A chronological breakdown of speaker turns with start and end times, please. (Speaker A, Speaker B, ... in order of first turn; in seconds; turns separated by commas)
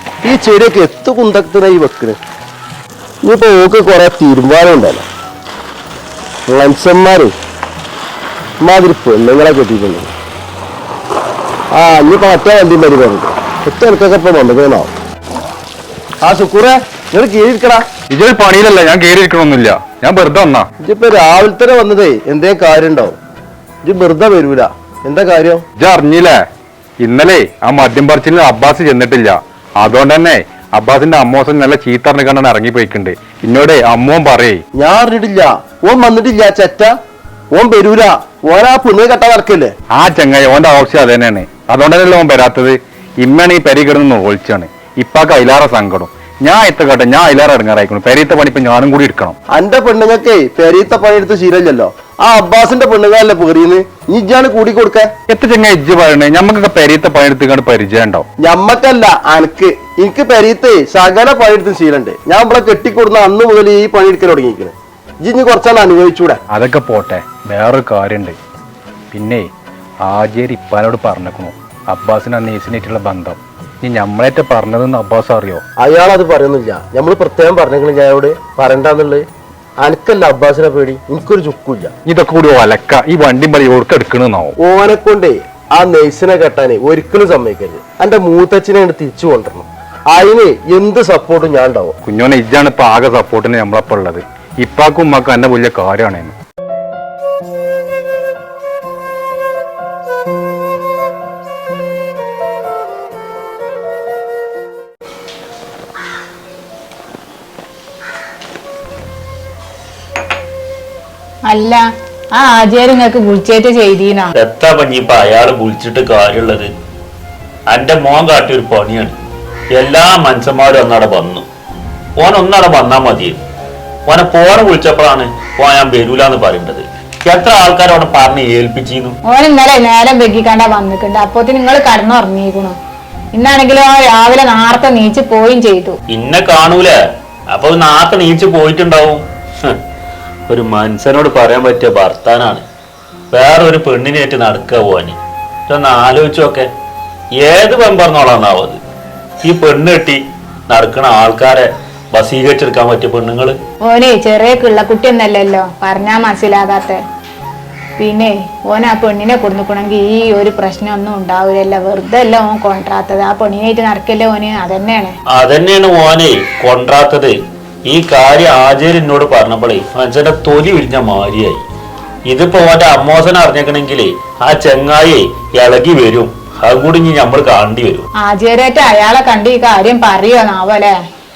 Speaker A: 0.2-2.2, Speaker A: 3.2-5.1, Speaker A: 6.5-7.3, Speaker A: 8.6-10.1, Speaker A: 11.7-14.9, Speaker A: 16.2-17.9, Speaker B: 18.1-20.7, Speaker A: 20.8-23.2, Speaker A: 23.8-25.6, Speaker B: 25.8-26.4, Speaker B: 27.0-34.6, Speaker A: 34.8-37.0, Speaker A: 37.5-39.7, Speaker B: 39.9-49.4, Speaker A: 49.5-55.1, Speaker B: 55.3-58.3, Speaker A: 58.4-66.4, Speaker B: 66.5-68.4, Speaker B: 69.1-69.5, Speaker B: 70.0-75.6, Speaker A: 75.8-79.2, Speaker A: 79.8-81.9, Speaker B: 82.1-84.5, Speaker A: 84.6-91.9, Speaker B: 92.1-96.3, Speaker C: 111.5-111.8, Speaker C: 112.3-114.3, Speaker D: 114.4-116.7, Speaker D: 117.7-119.2, Speaker D: 119.8-121.5, Speaker D: 122.2-123.4, Speaker D: 124.1-129.2, Speaker C: 129.3-132.8, Speaker C: 133.3-136.0, Speaker D: 136.1-137.0, Speaker D: 137.5-139.8, Speaker D: 140.5-142.6, Speaker D: 143.3-145.2, Speaker D: 145.7-146.7, Speaker D: 147.4-148.8, Speaker D: 149.4-153.6, Speaker C: 153.8-157.0, Speaker C: 158.0-165.1, Speaker D: 165.3-167.3, Speaker D: 167.9-171.6, Speaker D: 172.3-178.1, Speaker C: 178.2-180.9